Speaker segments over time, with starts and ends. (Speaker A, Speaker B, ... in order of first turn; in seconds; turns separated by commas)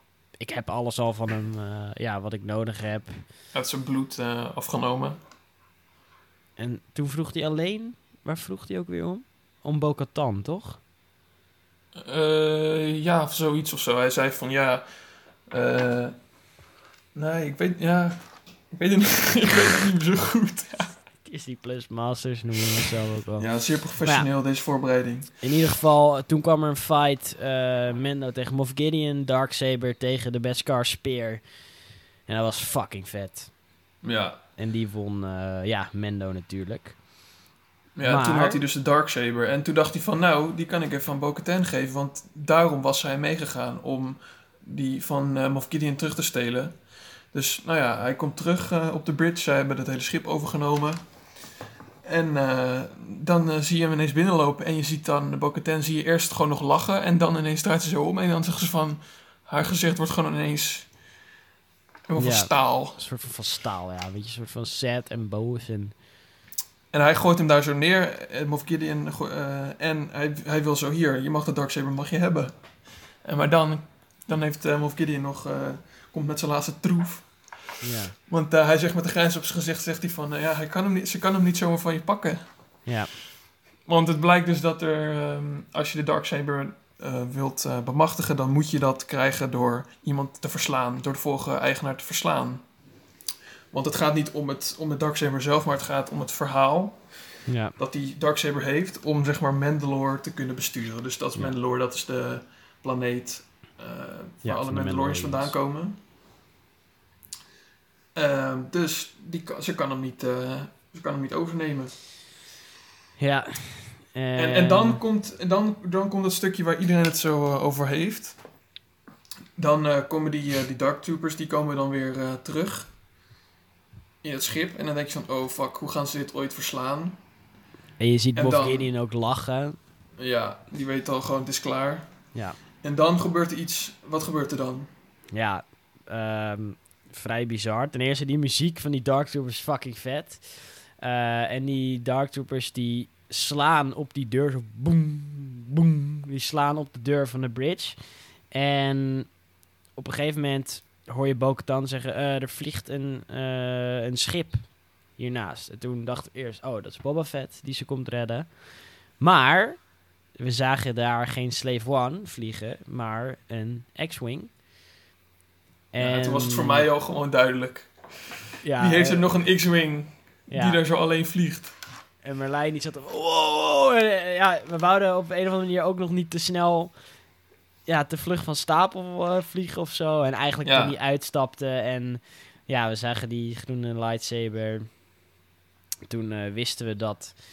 Speaker A: 0.4-3.2, Speaker B: 3.5-5.2, Speaker A: 6.6-10.8, Speaker B: 11.9-14.8, Speaker B: 15.5-16.1, Speaker B: 17.1-20.9, Speaker A: 21.2-23.5, Speaker B: 23.4-25.3, Speaker A: 25.4-31.4, Speaker A: 32.3-33.5, Speaker B: 34.0-34.4, Speaker A: 34.6-37.0, Speaker B: 38.0-46.7, Speaker A: 38.0-38.6, Speaker B: 47.3-51.0, Speaker B: 52.0-60.9, Speaker B: 62.1-63.0, Speaker A: 62.2-65.9, Speaker B: 66.9-72.5, Speaker B: 73.2-77.3, Speaker A: 77.8-78.1, Speaker B: 78.2-82.4, Speaker A: 82.8-83.1, Speaker B: 83.8-92.6, Speaker B: 93.7-97.0, Speaker A: 97.5-97.7, Speaker B: 97.8-106.0, Speaker A: 104.4-105.5, Speaker B: 108.1-111.9, Speaker A: 113.2-115.0, Speaker B: 114.3-118.4, Speaker B: 119.6-122.9, Speaker B: 124.2-127.2, Speaker A: 128.0-129.8, Speaker B: 128.3-128.9, Speaker B: 130.2-132.1, Speaker B: 132.8-134.9, Speaker A: 135.3-148.0, Speaker A: 148.5-149.3, Speaker A: 149.9-158.5, Speaker A: 159.2-159.8, Speaker A: 160.4-164.5, Speaker A: 165.9-166.9, Speaker B: 166.0-167.9, Speaker A: 168.6-169.2, Speaker B: 168.8-171.7, Speaker A: 170.5-170.8, Speaker A: 172.2-176.9, Speaker A: 177.9-184.9, Speaker B: 180.6-180.9, Speaker A: 186.1-187.3